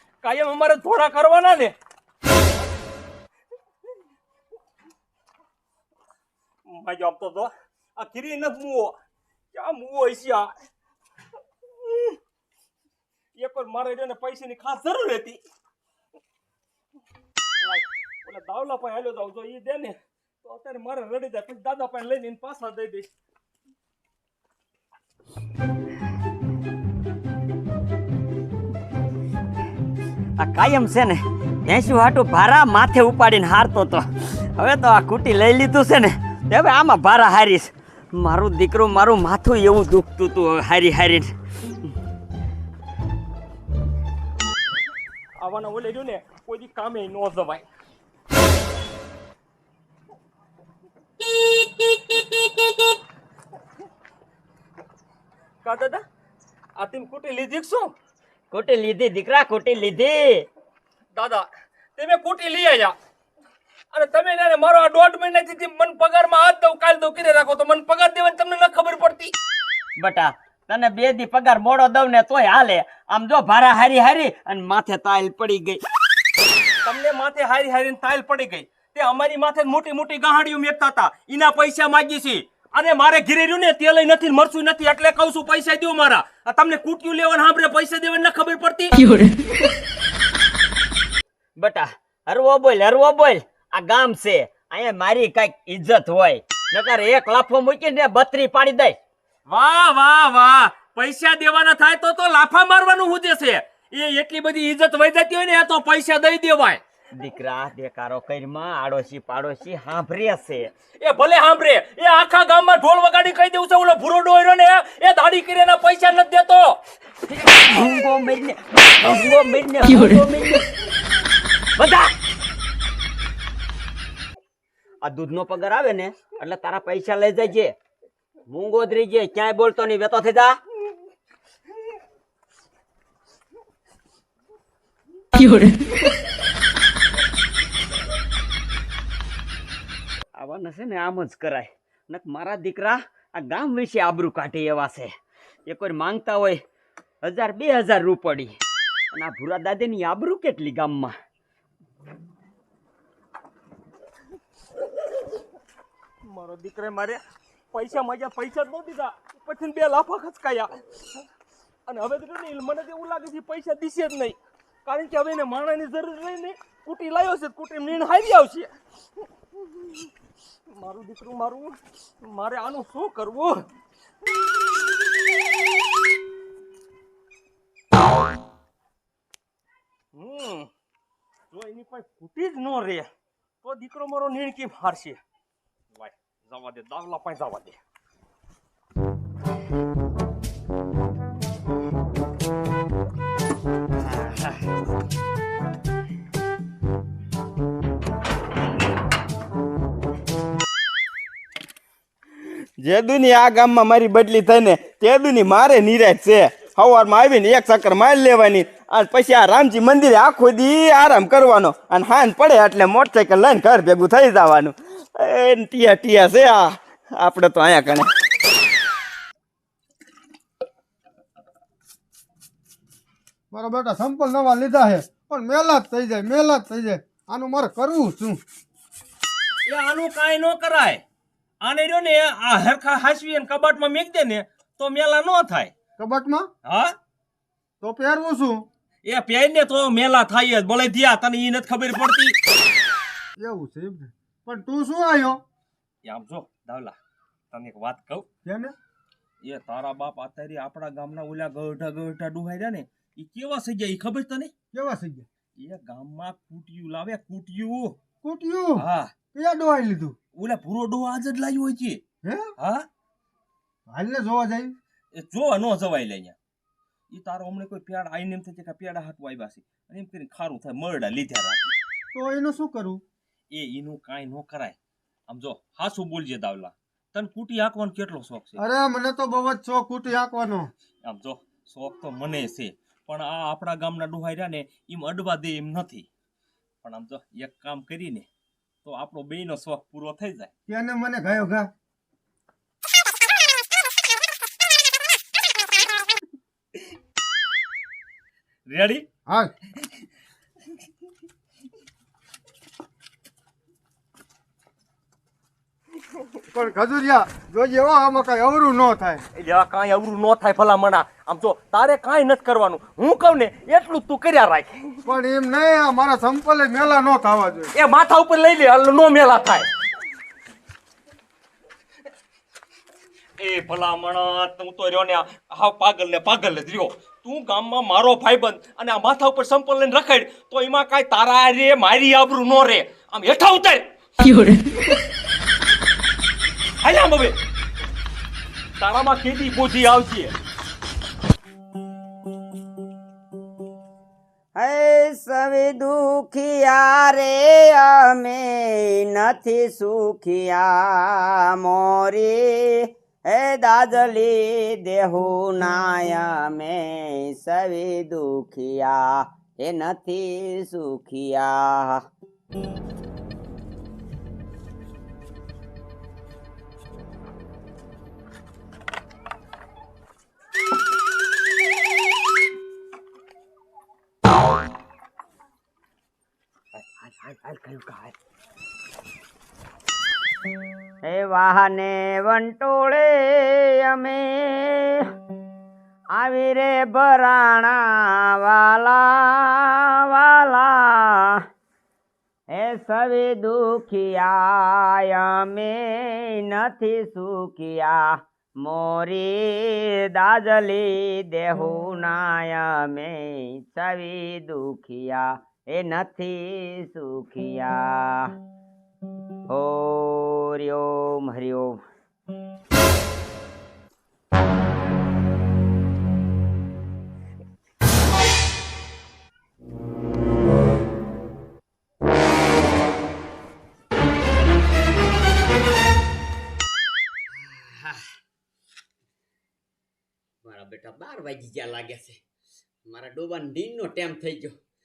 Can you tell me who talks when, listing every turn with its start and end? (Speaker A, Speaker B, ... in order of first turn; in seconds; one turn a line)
Speaker A: 0.2-1.7
Speaker A: 6.7-8.9
Speaker A: 9.5-10.5
Speaker A: 11.8-12.2
Speaker A: 13.3-15.4
Speaker A: 17.6-23.1
Speaker B: 30.4-41.3
Speaker A: 45.4-47.6
Speaker A: 55.6-56.0
Speaker A: 56.8-57.9
Speaker B: 58.5-60.5
Speaker A: 61.1-62.9
Speaker A: 63.9-69.3
Speaker B: 70.0-75.8
Speaker A: 76.8-89.0
Speaker B: 91.6-99.0
Speaker A: 99.5-106.8
Speaker B: 107.2-110.7
Speaker A: 111.0-116.8
Speaker B: 117.3-120.7
Speaker B: 121.8-122.1
Speaker B: 125.0-127.8
Speaker B: 128.5-130.6
Speaker B: 140.3-145.1
Speaker B: 145.7-146.6
Speaker B: 147.2-148.6
Speaker B: 149.1-151.1
Speaker A: 156.2-161.2
Speaker A: 161.8-168.7
Speaker A: 170.7-173.7
Speaker A: 180.1-180.7
Speaker A: 181.5-183.1
Speaker A: 183.6-185.2
Speaker A: 185.9-187.8
Speaker C: 202.8-218.1
Speaker D: 223.5-228.4
Speaker A: 229.7-231.0
Speaker A: 231.6-235.7
Speaker D: 236.0-236.5
Speaker A: 236.6-236.9
Speaker D: 237.8-238.6
Speaker A: 239.0-242.3
Speaker D: 243.4-245.4
Speaker A: 246.0-246.9
Speaker A: 247.5-248.2
Speaker D: 248.4-248.7
Speaker A: 249.4-254.5
Speaker D: 254.7-255.2
Speaker A: 255.6-258.0
Speaker D: 258.2-260.1
Speaker A: 258.8-259.1
Speaker A: 260.4-262.0
Speaker D: 262.2-262.5
Speaker A: 262.6-262.9
Speaker D: 263.9-264.7
Speaker A: 265.1-266.4
Speaker A: 267.1-271.8
Speaker D: 272.1-273.0
Speaker A: 273.5-274.8
Speaker A: 275.3-278.6
Speaker D: 278.6-280.7
Speaker A: 281.0-286.1
Speaker A: 286.8-288.3
Speaker A: 288.8-290.5
Speaker D: 290.7-291.7
Speaker A: 298.7-299.0
Speaker D: 299.3-299.5
Speaker D: 306.5-309.2
Speaker A: 309.3-315.0
Speaker D: 315.0-317.7
Speaker A: 317.7-319.7
Speaker A: 323.4-333.9
Speaker A: 336.8-337.4
Speaker A: 338.8-340.3
Speaker B: 344.6-362.0
Speaker A: 376.7-378.1
Speaker B: 381.1-385.0
Speaker B: 386.1-391.4
Speaker B: 392.5-408.3
Speaker B: 409.5-411.8
Speaker B: 427.3-428.1
Speaker B: 430.4-432.2
Speaker B: 432.9-434.6